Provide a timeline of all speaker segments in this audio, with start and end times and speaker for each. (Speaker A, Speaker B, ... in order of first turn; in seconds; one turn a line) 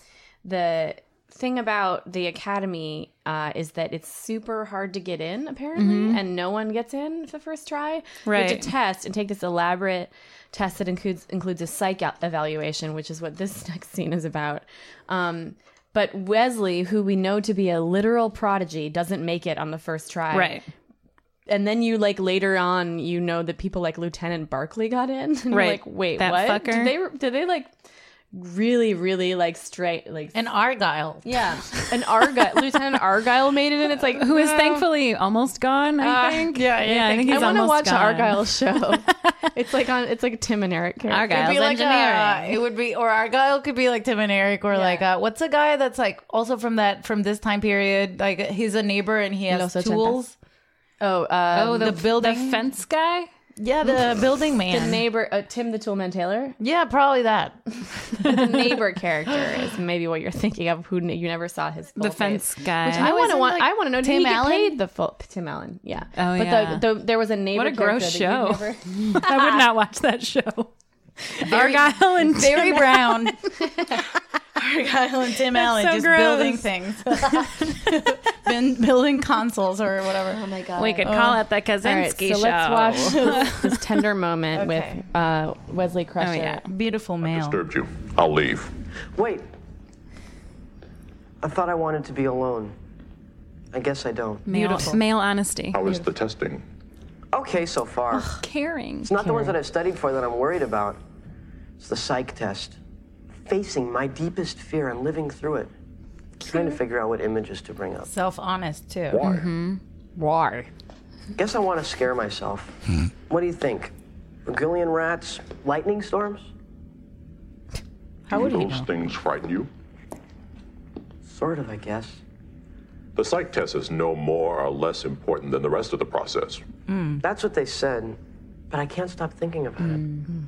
Speaker A: 0.4-20.6
Speaker B: 5.8-6.2
Speaker B: 8.2-8.7
Speaker B: 20.3-20.6
Speaker A: 21.5-27.7
Speaker B: 25.5-26.9
Speaker A: 28.3-30.4
Speaker C: 30.3-31.4
Speaker A: 31.2-34.8
Speaker B: 34.2-39.3
Speaker C: 34.2-34.8
Speaker C: 36.0-37.7
Speaker A: 37.2-41.6
Speaker B: 41.1-42.5
Speaker C: 41.3-50.3
Speaker A: 44.7-45.0
Speaker A: 49.5-50.2
Speaker A: 51.0-52.0
Speaker B: 51.5-53.3
Speaker C: 51.7-52.6
Speaker C: 53.6-55.0
Speaker A: 54.7-56.6
Speaker C: 56.6-58.6
Speaker A: 58.2-69.6
Speaker B: 62.0-63.1
Speaker C: 62.8-64.8
Speaker B: 66.2-67.0
Speaker B: 67.5-70.7
Speaker B: 71.3-73.3
Speaker C: 71.4-73.5
Speaker A: 73.6-74.0
Speaker C: 74.5-80.5
Speaker B: 75.5-77.7
Speaker A: 80.3-81.2
Speaker B: 80.7-83.8
Speaker C: 81.0-81.4
Speaker A: 81.8-86.6
Speaker C: 84.5-85.0
Speaker B: 86.2-86.6
Speaker C: 86.7-87.6
Speaker D: 87.2-88.7
Speaker E: 89.1-89.5
Speaker E: 91.4-92.7
Speaker E: 93.7-94.4
Speaker B: 94.5-95.8
Speaker C: 94.5-95.0
Speaker D: 95.7-96.6
Speaker E: 97.3-98.4
Speaker B: 98.4-99.1
Speaker E: 99.0-101.0
Speaker A: 99.2-99.5
Speaker E: 101.8-102.8
Speaker E: 103.4-105.7
Speaker E: 106.4-108.1
Speaker A: 106.4-106.8
Speaker C: 108.0-109.2
Speaker D: 109.1-109.5
Speaker B: 109.2-109.8
Speaker A: 110.2-110.7
Speaker E: 111.3-112.8
Speaker E: 113.3-113.9
Speaker E: 114.5-116.5
Speaker D: 118.3-119.7
Speaker C: 118.3-118.8
Speaker E: 121.2-122.2
Speaker D: 123.2-126.6
Speaker C: 126.9-127.2
Speaker E: 127.2-128.2
Speaker E: 128.7-130.0
Speaker C: 129.8-130.2